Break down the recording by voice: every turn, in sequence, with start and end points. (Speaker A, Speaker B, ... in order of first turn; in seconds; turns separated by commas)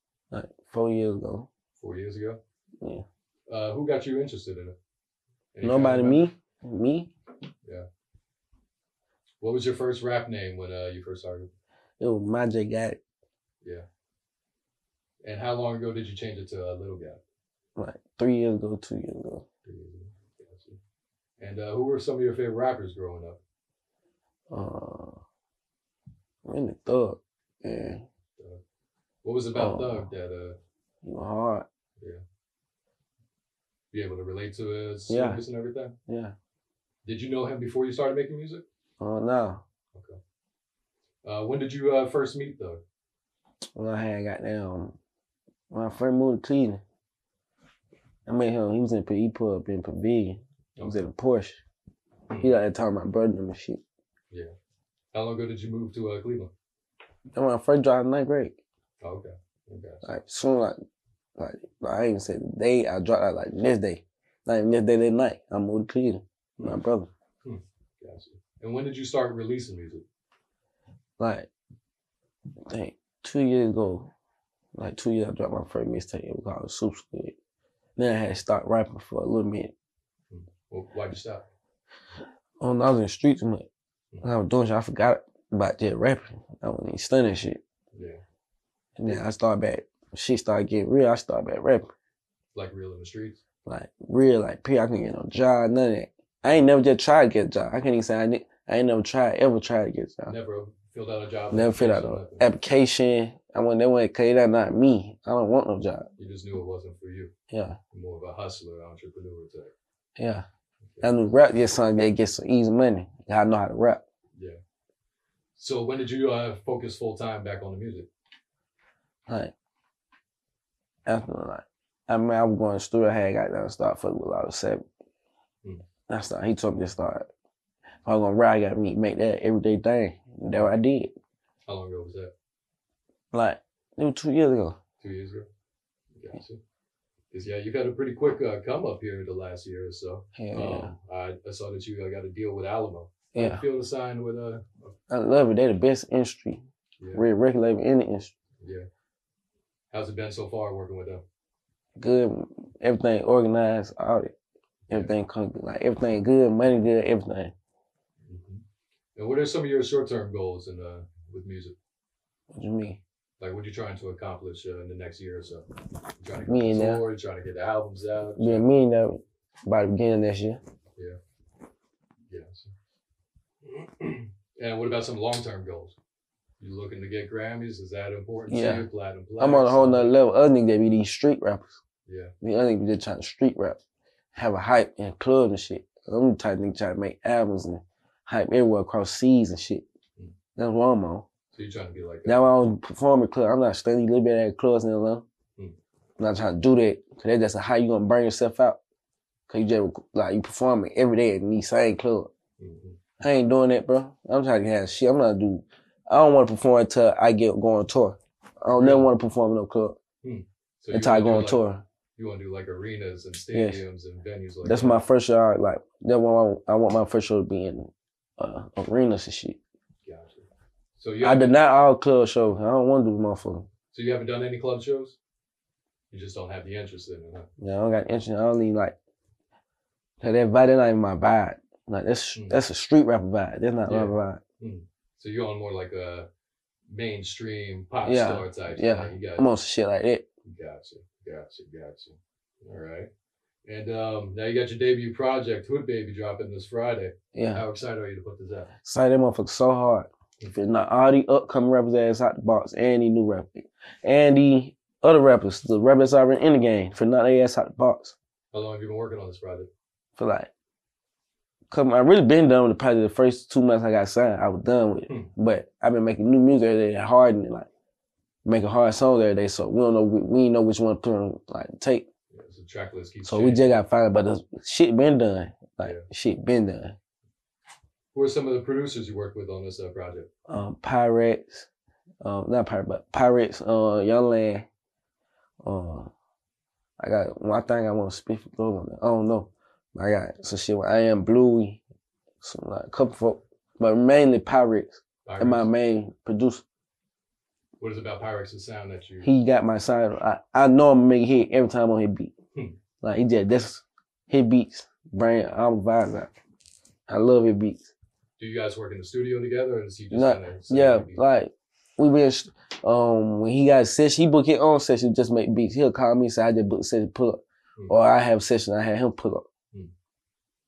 Speaker A: 0.3-1.5, Speaker B: 1.8-2.4, Speaker B: 3.5-4.8, Speaker B: 5.5-6.2, Speaker A: 5.6-7.1, Speaker B: 9.4-11.5, Speaker A: 12.0-13.0, Speaker B: 15.2-17.2, Speaker A: 17.8-19.4, Speaker B: 19.6-20.8, Speaker B: 21.4-23.4, Speaker A: 24.5-25.2, Speaker A: 26.4-28.0, Speaker B: 29.2-30.6, Speaker A: 29.6-30.1, Speaker A: 31.0-31.7, Speaker B: 33.9-35.9, Speaker A: 35.1-35.4, Speaker A: 36.1-36.3, Speaker B: 37.0-38.6, Speaker A: 39.0-39.6, Speaker B: 41.2-42.8, Speaker A: 43.8-45.0, Speaker A: 45.7-46.8, Speaker A: 48.3-51.6, Speaker B: 50.8-51.1, Speaker B: 52.3-52.6, Speaker A: 52.4-53.8, Speaker B: 55.1-56.5, Speaker A: 57.3-58.6, Speaker B: 59.0-60.1, Speaker A: 60.0-60.8, Speaker A: 61.4-67.1, Speaker B: 67.4-70.0, Speaker A: 71.2-71.5, Speaker A: 72.7-74.1, Speaker A: 74.8-77.3, Speaker A: 78.0-79.7, Speaker B: 80.3-81.5, Speaker A: 82.6-83.7, Speaker A: 84.2-87.6, Speaker B: 87.9-88.2, Speaker A: 89.0-91.9, Speaker B: 92.5-93.4, Speaker A: 93.7-100.3, Speaker B: 100.3-102.5, Speaker A: 101.5-106.1, Speaker B: 106.2-107.3, Speaker A: 107.5-107.8, Speaker B: 107.9-109.7, Speaker A: 110.2-110.5, Speaker B: 110.8-111.2, Speaker A: 111.0-114.0, Speaker B: 115.5-118.1, Speaker A: 119.3-119.5, Speaker A: 121.1-124.8, Speaker A: 126.1-127.2, Speaker A: 128.1-131.1, Speaker B: 131.7-132.3, Speaker A: 133.3-134.8, Speaker B: 135.0-135.5, Speaker B: 136.1-136.6, Speaker B: 137.3-144.9, Speaker A: 140.4-140.9, Speaker A: 143.3-143.7, Speaker A: 145.1-148.3, Speaker B: 147.0-147.3, Speaker B: 148.6-148.9, Speaker B: 149.9-151.2, Speaker A: 152.0-154.3, Speaker B: 154.9-155.2, Speaker A: 154.9-157.5, Speaker B: 158.2-158.6, Speaker B: 159.2-161.8, Speaker A: 162.5-163.0, Speaker B: 163.4-168.7, Speaker A: 166.5-167.0, Speaker A: 168.4-170.6, Speaker B: 172.3-172.7, Speaker B: 173.6-176.0, Speaker B: 176.6-180.1, Speaker A: 178.5-178.9, Speaker A: 179.4-181.8, Speaker B: 182.1-182.3, Speaker A: 182.4-183.8, Speaker A: 184.3-189.8, Speaker A: 190.6-191.3, Speaker B: 191.5-192.4, Speaker A: 192.2-195.2, Speaker A: 196.2-198.8, Speaker A: 199.5-202.3, Speaker B: 202.6-203.0, Speaker A: 203.2-210.0, Speaker B: 208.7-209.1, Speaker B: 210.2-215.0, Speaker A: 210.9-211.8, Speaker A: 213.5-213.8, Speaker A: 214.6-219.6, Speaker B: 220.0-221.6, Speaker A: 221.2-223.7, Speaker B: 223.9-225.2, Speaker B: 226.1-227.5, Speaker A: 227.6-228.9, Speaker A: 230.2-234.4, Speaker B: 232.3-232.6, Speaker B: 233.9-236.3, Speaker B: 236.9-239.5, Speaker A: 238.0-240.2, Speaker B: 240.4-243.1, Speaker B: 243.7-248.7, Speaker A: 247.3-247.7, Speaker A: 248.8-258.1, Speaker B: 258.5-259.7, Speaker A: 260.2-260.5, Speaker A: 261.7-267.7, Speaker A: 268.4-272.1, Speaker B: 272.3-273.7, Speaker A: 273.2-277.0, Speaker B: 278.1-280.3, Speaker A: 280.5-281.7, Speaker A: 282.2-284.7, Speaker A: 285.6-286.1, Speaker A: 287.0-291.8, Speaker A: 292.4-296.6, Speaker B: 295.2-295.7, Speaker B: 297.8-299.3, Speaker A: 299.2-302.3, Speaker A: 303.0-306.3, Speaker A: 307.1-307.9, Speaker B: 308.4-311.2, Speaker A: 310.1-319.5